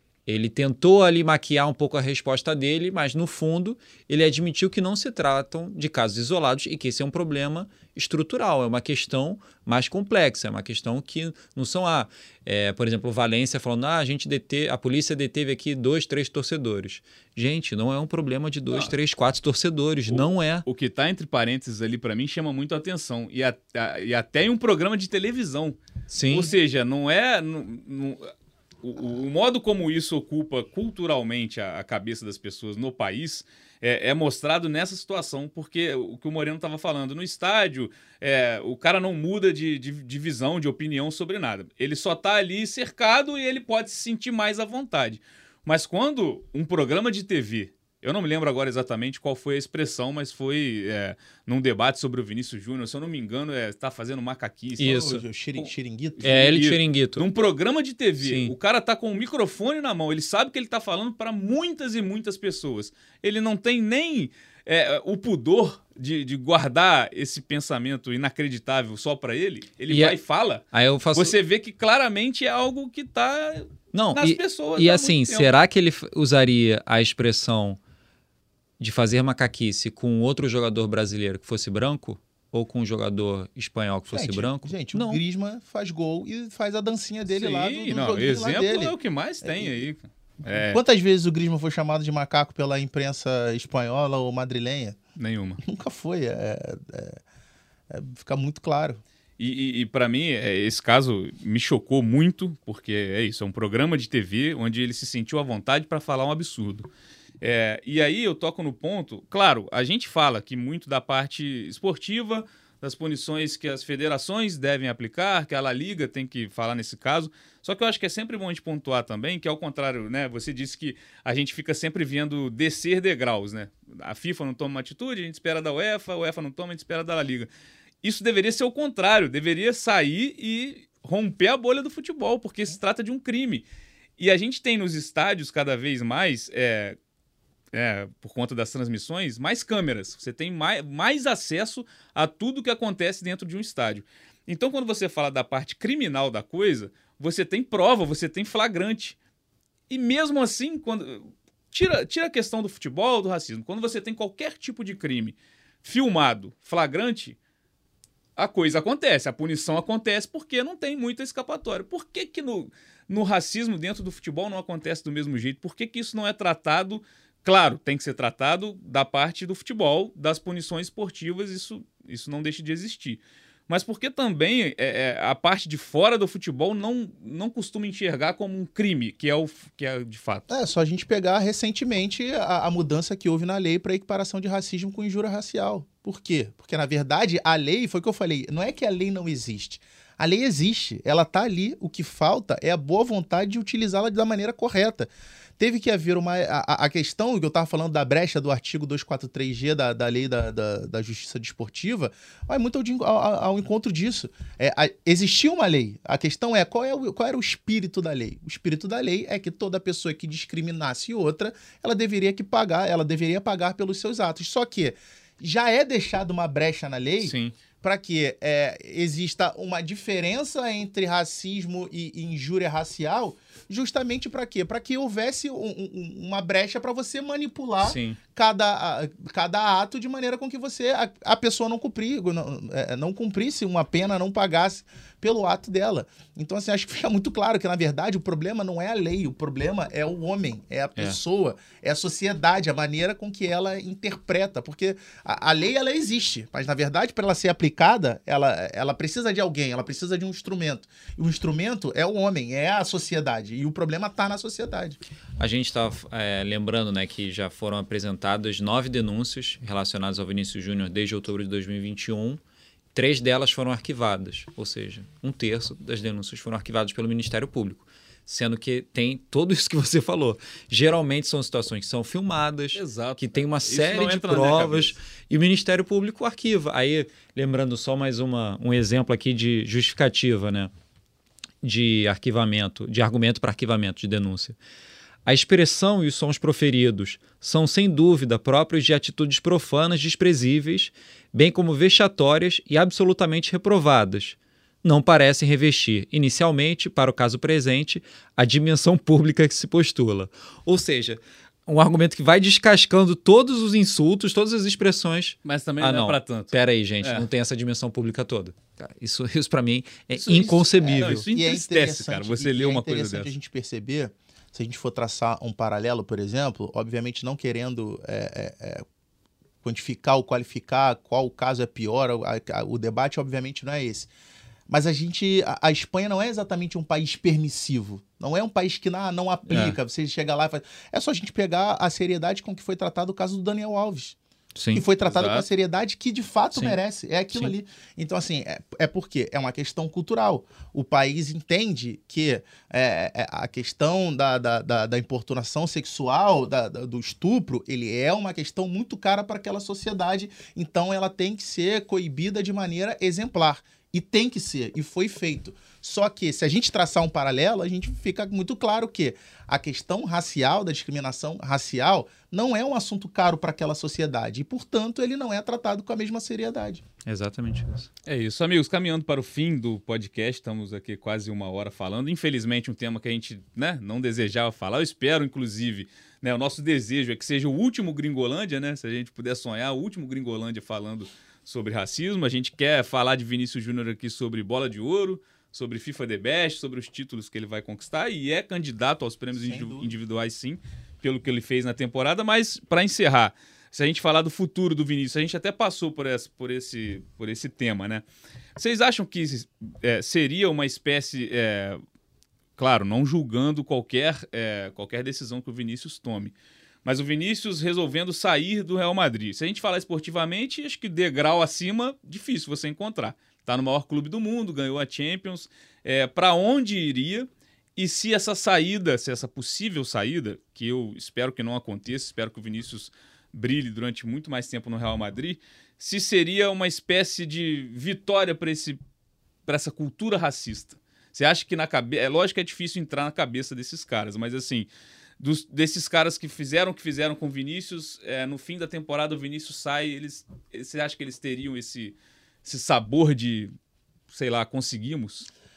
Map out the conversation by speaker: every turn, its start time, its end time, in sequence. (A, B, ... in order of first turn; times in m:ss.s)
0:00.3-0:20.6 A
0:20.1-0:28.3 B
0:26.1-0:26.5 A
0:28.8-1:15.5 B
0:54.8-0:55.2 A
0:54.8-0:56.5 C
0:56.2-0:57.3 A
0:58.2-0:58.5 A
1:09.9-1:10.2 A
1:10.7-1:11.4 A
1:13.9-1:17.8 A
1:18.8-1:25.2 A
1:24.1-1:29.8 C
1:27.3-1:30.8 B
1:30.4-1:35.0 C
1:35.2-1:35.6 B
1:35.6-1:37.2 C
1:37.9-1:39.0 C
1:39.4-1:46.9 B
1:47.4-2:07.5 B
2:08.0-2:13.6 B
2:14.2-2:17.0 B
2:17.7-2:29.2 B
2:29.9-2:37.4 B
2:38.4-3:00.5 B
3:00.5-4:15.0 C
3:37.2-3:37.5 A
3:47.8-3:48.2 A
4:15.4-4:22.4 A
4:22.9-4:40.7 A
4:32.7-4:35.0 B
4:41.6-4:44.6 A
4:45.3-5:11.3 A
5:05.4-5:07.3 B
5:10.2-5:13.3 B
5:10.8-5:18.8 C
5:19.6-5:24.1 C
5:24.7-5:34.2 C
5:29.5-5:29.8 A
5:34.6-5:34.8 A
5:34.7-6:06.8 C
5:35.1-5:35.4 B
6:07.0-6:07.9 A
6:08.0-6:38.0 B
6:29.3-6:29.9 C
6:38.6-6:41.8 B
6:42.6-6:46.3 B
6:46.8-7:08.8 B
7:09.4-7:14.7 B
7:15.2-7:23.5 B
7:24.1-7:25.3 B